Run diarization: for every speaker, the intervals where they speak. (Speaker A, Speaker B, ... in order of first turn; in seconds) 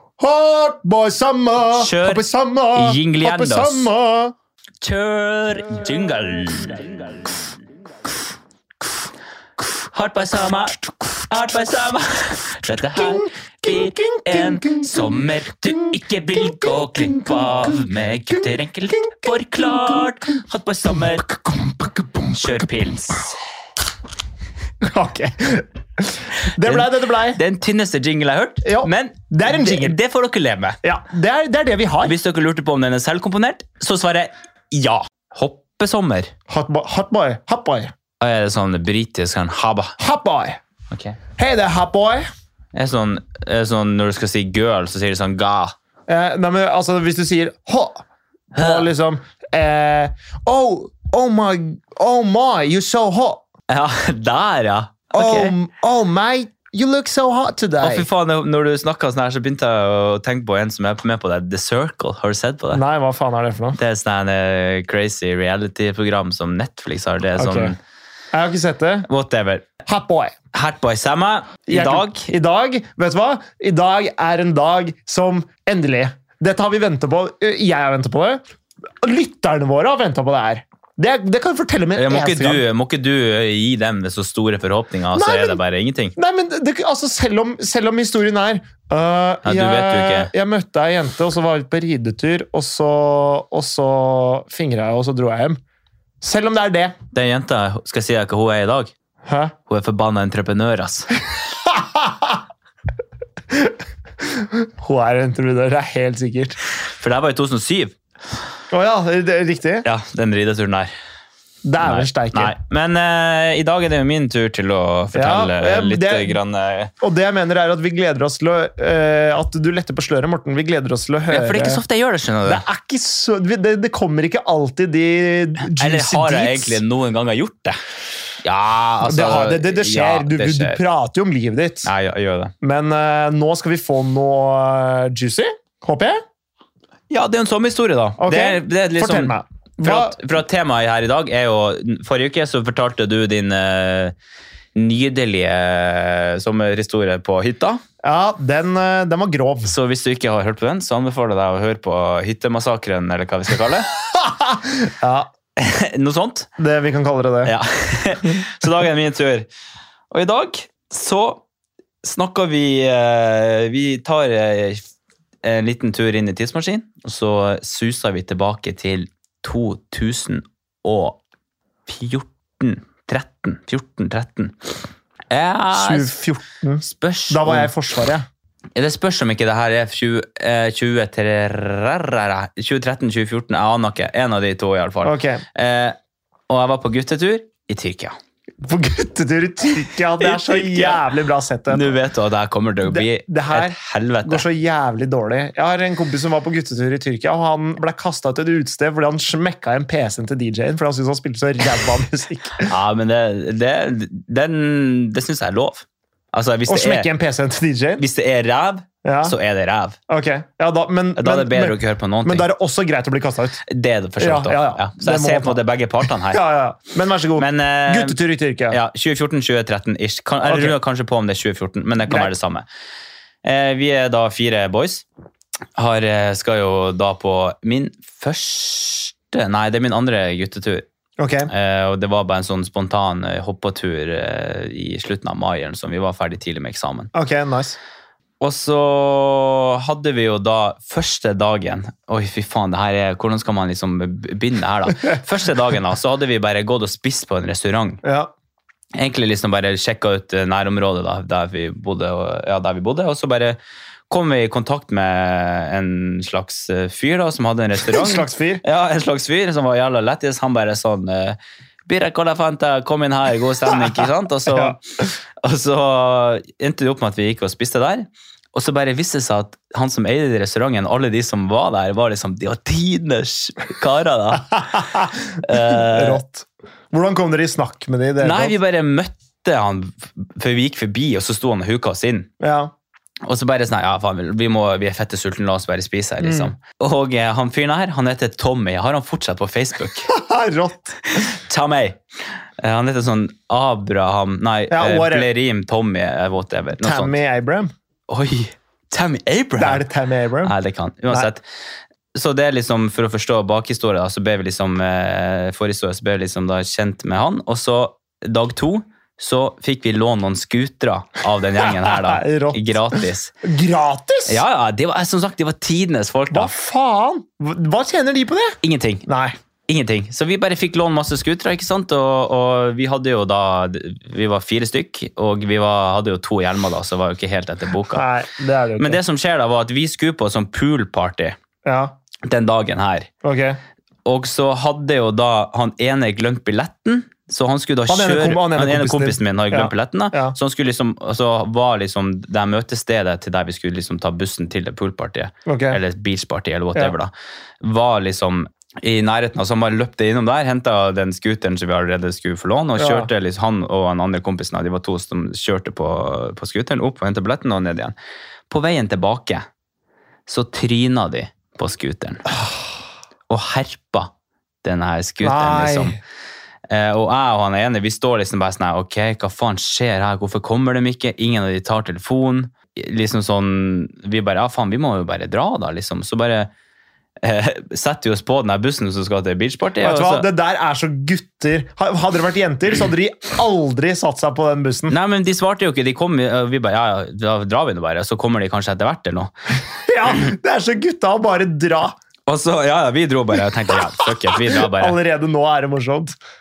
Speaker A: 0.2-4.3, 12.9-15.1, 16.8-17.5, 21.2-22.4, 24.8-27.4, 28.6-29.9, 30.8-32.1, 36.5-37.9, 40.0-40.6, 41.4-42.2, 46.1-48.0, 48.5-53.4, 55.1-58.1, 62.7-63.8, 67.3-67.7, 68.3-69.1, 69.8-70.3, 71.7-78.4, 79.0-82.6, 85.1-85.6, 86.2-95.6, 96.2-96.9, 99.3-99.5, 101.6-102.4, 103.5-106.6, 108.7-109.8, 111.6-112.5, 115.1-116.4, 117.0-121.8, 122.5-126.8, 129.0-131.9, 132.6-136.2, 138.2-140.2, 148.0-149.7, 154.1-155.3, 156.6-157.5, 175.7-178.2, 185.0-185.4, 188.6-192.0, 192.8-202.7, 206.7-208.0, 209.0-209.3, 210.1-213.6, 214.2-218.8, 220.4-220.8, 222.1-222.3, 231.2-231.5, 237.1-237.8, 248.0-248.3, 257.8-258.6, 263.7-264.8, 274.7-278.6, 282.4-282.7, 286.2-286.5, 290.1-291.2, 294.7-295.3, 296.8-297.7, 299.6-300.5, 311.6-312.8, 313.4-314.4, 316.3-319.3, 327.9-329.0, 331.6-331.9, 333.2-333.6, 337.9-340.3, 345.4-345.8, 352.8-353.1, 365.2-366.0, 379.8-384.9, 389.7-391.9, 393.7-396.2
Speaker B: 1.7-3.9, 4.8-7.4, 9.9-21.3, 22.3-23.4, 26.6-30.8, 32.0-36.3, 38.2-39.9, 40.9-41.2, 42.7-45.7, 48.5-48.9, 53.7-55.5, 57.8-62.8, 63.8-67.8, 69.0-69.7, 70.5-72.2, 81.9-86.1, 89.4-90.3, 97.1-98.9, 99.7-101.1, 107.0-107.9, 109.8-110.9, 111.8-116.9, 121.3-122.6, 125.6-127.8, 128.4-130.8, 131.8-132.5, 137.1-144.1, 144.7-147.8, 149.7-153.9, 155.6-156.5, 157.4-159.5, 160.1-161.4, 162.0-164.8, 165.4-171.2, 171.9-174.6, 175.3-176.1, 176.8-177.7, 178.8-185.9, 186.5-188.1, 190.2-191.1, 191.7-194.4, 202.7-207.1, 208.0-210.0, 211.2-212.4, 213.7-216.4, 217.4-218.2, 218.7-222.7, 223.4-225.0, 225.8-230.8, 231.5-237.1, 238.4-248.0, 248.9-253.6, 254.1-264.8, 265.4-274.9, 275.4-276.2, 278.2-282.3, 283.3-290.1, 291.1-292.0, 292.6-297.2, 298.1-299.9, 300.4-301.4, 302.1-313.3, 314.3-316.5, 318.6-319.1, 319.7-328.0, 328.8-331.3, 332.2-333.1, 334.0-357.9, 358.5-359.4, 360.2-362.2, 363.3-364.1, 364.6-366.0, 366.7-376.5, 377.2-380.3, 384.9-389.3, 392.3-395.0